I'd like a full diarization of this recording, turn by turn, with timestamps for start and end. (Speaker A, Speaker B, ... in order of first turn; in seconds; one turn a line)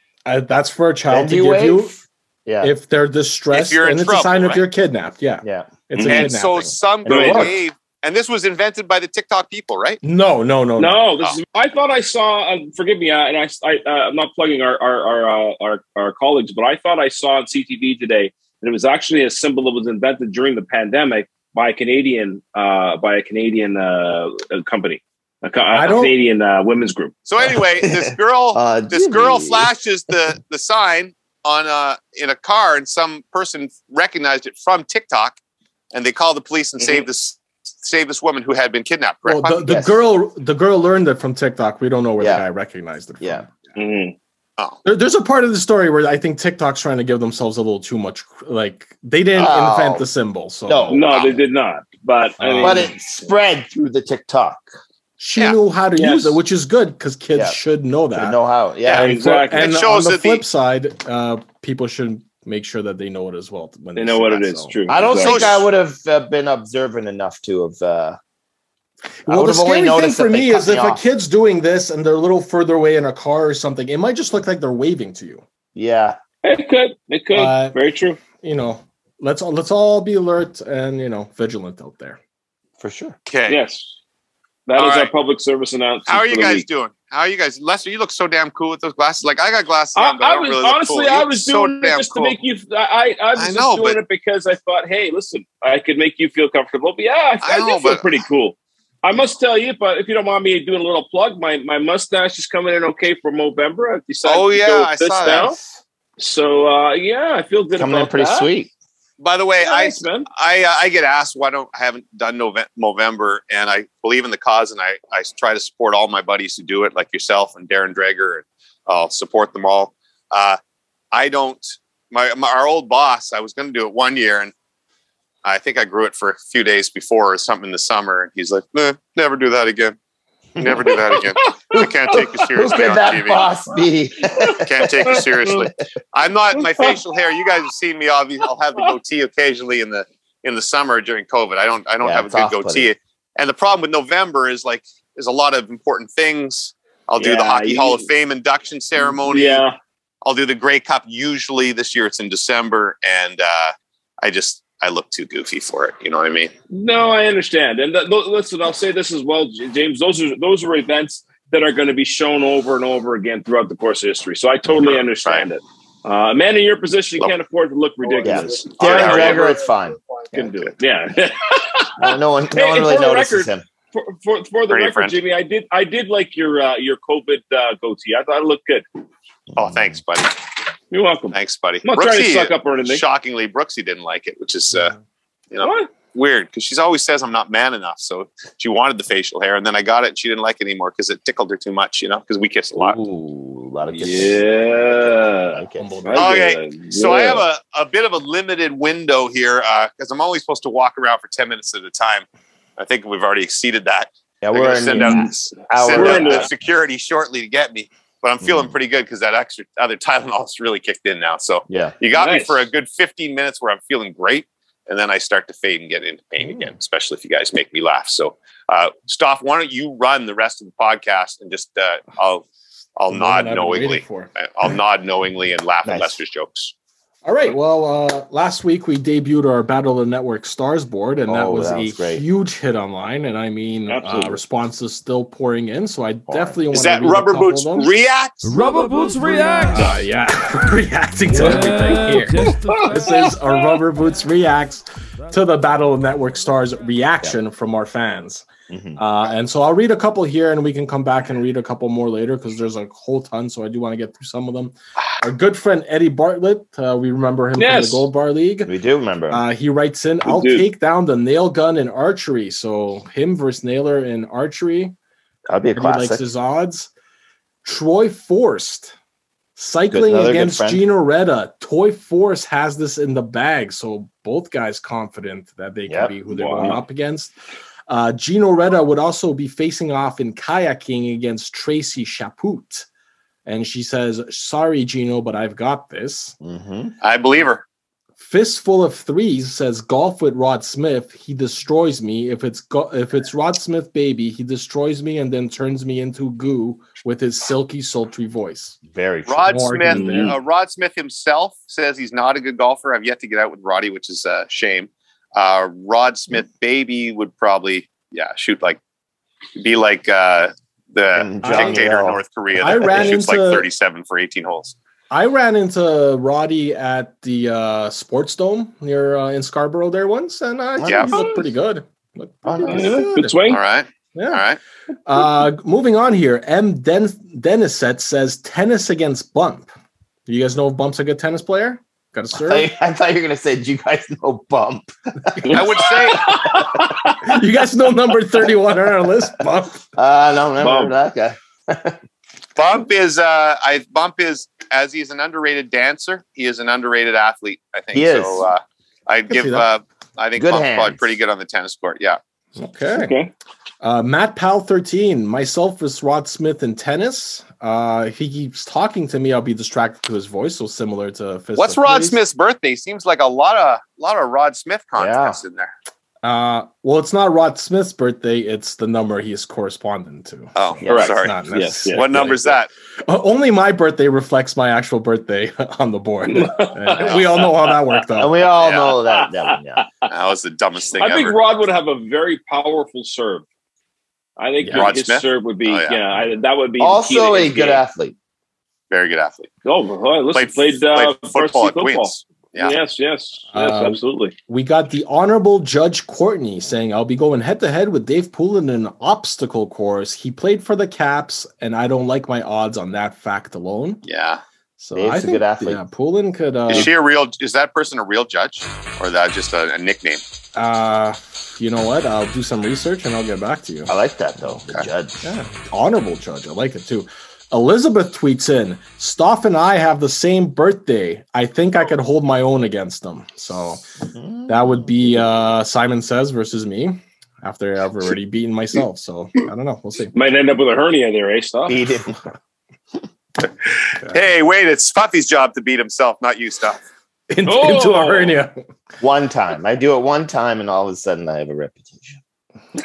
Speaker A: 0.3-2.0
Speaker B: 1.1-2.7
Speaker A: 2.6-6.8
Speaker C: 3.5-4.6
Speaker B: 5.4-6.3
Speaker C: 6.0-10.0
Speaker B: 7.0-7.6
Speaker D: 7.1-7.4
Speaker A: 10.0-11.0
Speaker D: 10.8-27.1
Speaker A: 25.7-26.1
Speaker C: 27.3-35.4
Speaker B: 27.4-29.7
Speaker C: 35.9-39.8
Speaker A: 39.3-43.5
Speaker B: 39.7-39.9
Speaker B: 42.2-42.5
Speaker B: 43.2-43.5
Speaker D: 43.8-44.1
Speaker A: 44.8-51.0
Speaker B: 49.4-50.0
Speaker B: 50.7-51.1
Speaker D: 50.9-52.9
Speaker C: 51.1-51.4
Speaker A: 52.4-52.9
Speaker B: 52.6-54.6
Speaker A: 55.2-58.4
Speaker D: 56.0-56.4
Speaker B: 58.1-59.1
Speaker C: 58.9-60.4
Speaker D: 58.9-59.6
Speaker A: 58.9-64.7
Speaker D: 64.0-65.5
Speaker B: 64.9-68.2
Speaker C: 65.2-65.6
Speaker B: 69.3-71.0
Speaker A: 69.3-75.4
Speaker B: 75.8-76.2
Speaker D: 76.4-78.2
Speaker A: 77.3-77.8
Speaker A: 78.4-82.2
Speaker B: 82.8-83.2
Speaker C: 83.3-83.6
Speaker D: 83.5-83.9
Speaker D: 84.7-86.7
Speaker C: 84.8-85.1
Speaker C: 86.1-92.4
Speaker D: 90.0-105.6
Speaker C: 93.4-94.0
Speaker C: 97.4-98.1
Speaker C: 104.2-105.5
Speaker B: 105.3-105.8
Speaker D: 106.2-108.5
Speaker B: 107.7-108.7
Speaker C: 109.2-120.6
Speaker D: 109.6-110.3
Speaker C: 121.1-124.5
Speaker C: 125.4-130.0
Speaker B: 130.6-130.9
Speaker C: 130.6-133.5
Speaker D: 130.9-131.9
Speaker B: 132.1-135.2
Speaker D: 134.3-135.6
Speaker C: 134.6-149.6
Speaker D: 136.6-137.0
Speaker B: 142.0-142.9
Speaker D: 147.2-148.1
Speaker D: 149.2-149.8
Speaker C: 150.2-156.5
Speaker D: 156.7-169.7
Speaker C: 164.7-165.5
Speaker B: 168.2-170.5
Speaker C: 168.8-169.5
Speaker D: 170.3-178.8
Speaker B: 172.0-173.6
Speaker C: 174.7-175.2
Speaker C: 179.6-180.3
Speaker D: 180.9-183.0
Speaker C: 181.3-184.9
Speaker C: 185.5-193.0
Speaker D: 185.6-185.9
Speaker B: 192.8-196.2
Speaker D: 193.9-197.4
Speaker A: 195.8-196.3
Speaker C: 196.2-202.2
Speaker C: 202.8-222.4
Speaker B: 204.4-206.5
Speaker D: 205.0-205.3
Speaker D: 205.9-206.5
Speaker B: 208.4-208.7
Speaker B: 211.7-212.0
Speaker D: 212.1-212.7
Speaker A: 216.4-216.7
Speaker C: 223.0-226.7
Speaker A: 223.1-224.3
Speaker B: 225.8-226.2
Speaker A: 227.2-237.9
Speaker B: 231.3-232.2
Speaker D: 233.9-234.4
Speaker B: 236.3-236.6
Speaker C: 236.7-238.5
Speaker E: 238.4-240.1
Speaker A: 239.7-258.7
Speaker E: 241.3-243.8
Speaker B: 248.7-249.0
Speaker D: 257.6-258.1
Speaker B: 258.7-259.4
Speaker A: 259.3-264.9
Speaker D: 260.2-260.6
Speaker B: 265.5-266.3
Speaker A: 265.7-266.9
Speaker A: 267.6-268.9
Speaker A: 269.6-277.3
Speaker B: 269.9-270.9
Speaker B: 275.9-276.1
Speaker D: 276.3-276.8
Speaker A: 277.9-282.9
Speaker A: 283.5-286.4
Speaker B: 286.4-286.9
Speaker C: 287.0-287.6
Speaker A: 288.2-298.8
Speaker B: 298.9-299.5
Speaker C: 299.3-308.8
Speaker A: 299.4-300.3
Speaker D: 299.9-300.4
Speaker C: 309.6-314.8
Speaker B: 311.1-312.2
Speaker A: 311.4-311.8
Speaker A: 312.6-313.7
Speaker A: 315.1-323.4
Speaker B: 320.8-321.3
Speaker C: 320.9-321.3
Speaker B: 322.4-323.0
Speaker D: 322.6-323.6
Speaker C: 323.5-324.6
Speaker A: 324.1-324.4
Speaker A: 325.1-329.7
Speaker A: 330.3-332.7
Speaker B: 332.3-336.7
Speaker D: 335.4-337.2
Speaker C: 335.5-336.5
Speaker A: 337.2-339.9
Speaker B: 340.0-342.0
Speaker D: 340.6-340.9
Speaker C: 342.6-352.2
Speaker B: 347.9-348.5
Speaker A: 349.3-349.7
Speaker B: 350.4-351.1
Speaker A: 352.6-353.1
Speaker D: 352.9-353.3
Speaker A: 353.8-362.2
Speaker C: 361.6-365.7
Speaker B: 365.0-365.4
Speaker A: 366.2-372.3
Speaker C: 370.6-371.4
Speaker B: 370.8-371.1
Speaker D: 370.9-372.6
Speaker C: 371.9-372.7
Speaker A: 373.1-378.3
Speaker D: 376.3-377.9
Speaker B: 378.2-379.8
Speaker C: 378.6-379.0
Speaker C: 380.1-381.4
Speaker D: 381.0-383.5
Speaker D: 384.4-387.8
Speaker B: 384.6-384.9
Speaker C: 384.7-386.0
Speaker B: 386.8-388.1
Speaker C: 388.9-389.5
Speaker D: 389.6-394.3
Speaker C: 390.3-392.8
Speaker A: 393.5-404.0
Speaker C: 404.1-404.4
Speaker A: 404.8-406.9
Speaker B: 404.9-405.8
Speaker C: 406.7-410.2
Speaker A: 410.6-413.9
Speaker B: 413.9-415.3
Speaker A: 415.2-423.9
Speaker B: 424.1-425.2
Speaker A: 424.5-430.1
Speaker D: 430.1-431.9
Speaker B: 431.7-432.2
Speaker C: 433.4-436.8
Speaker A: 437.3-438.6
Speaker D: 437.5-438.3
Speaker B: 439.0-442.2